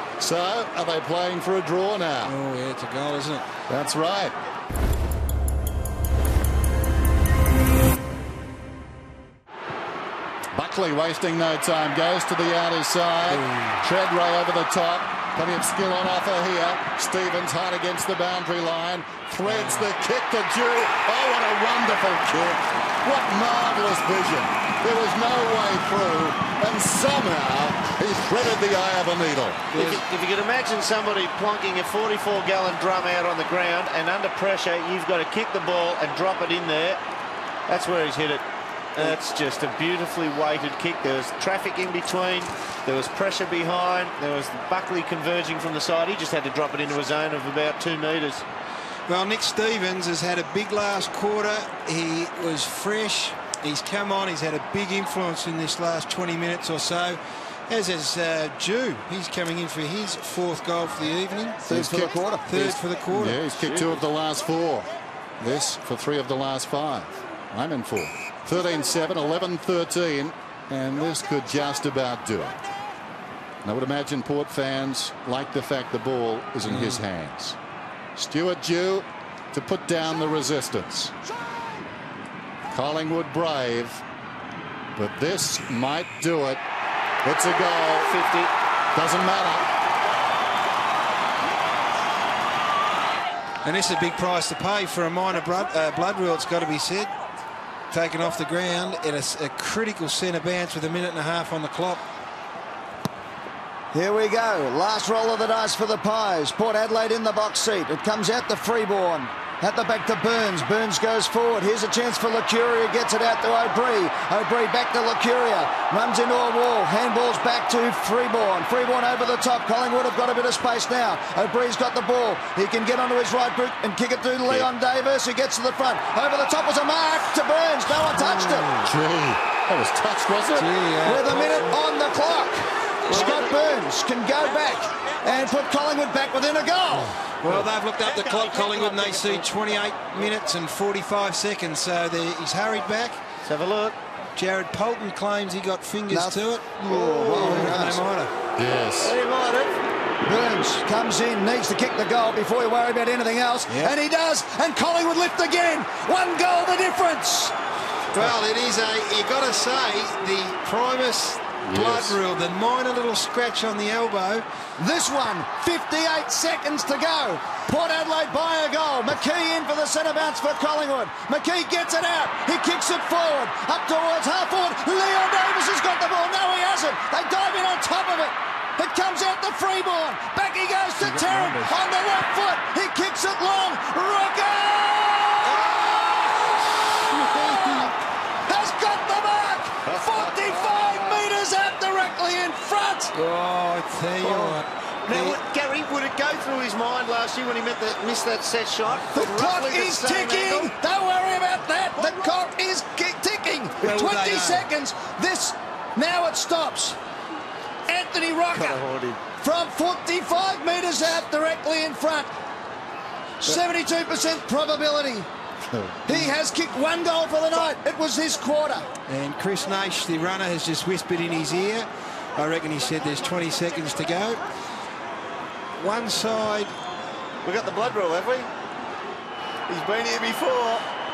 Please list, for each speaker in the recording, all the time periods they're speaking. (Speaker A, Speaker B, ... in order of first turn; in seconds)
Speaker A: 0.2-2.4, 3.7-4.3, 10.5-29.7, 61.7-62.1, 63.1-64.9, 65.4-72.6, 73.6-77.6, 78.2-81.1, 82.7-84.0, 85.0-86.6, 87.2-88.1, 88.9-89.7, 128.8-130.7, 137.0-137.6, 148.6-149.1, 161.6-162.2, 215.7-216.2
Speaker B: 2.2-3.5, 13.3-13.8, 19.4-19.9, 29.7-30.0, 49.1-61.6, 62.4-64.0, 76.6-77.0, 93.6-97.1, 97.9-102.0, 130.5-131.8, 133.1-133.4, 137.4-143.2, 144.3-148.3, 153.7-153.9, 158.1-164.4, 181.0-181.8, 185.5-187.9, 193.1-195.4, 203.8-204.7, 219.1-224.4, 225.8-226.7
Speaker C: 29.7-37.0, 37.7-38.4, 38.9-48.4, 88.0-88.5, 133.1-133.6, 143.4-144.0, 146.9-147.8, 149.0-149.8, 189.8-191.1, 194.2-200.7, 202.0-202.3, 208.5-209.2, 227.4-228.5, 229.7-230.8
Speaker D: 61.6-62.8, 103.9-128.7, 131.0-137.2, 146.1-148.0, 150.2-157.5, 164.8-187.9, 188.5-193.1, 199.1-207.0, 207.9-208.8, 209.4-212.3, 213.4-215.3, 216.1-218.9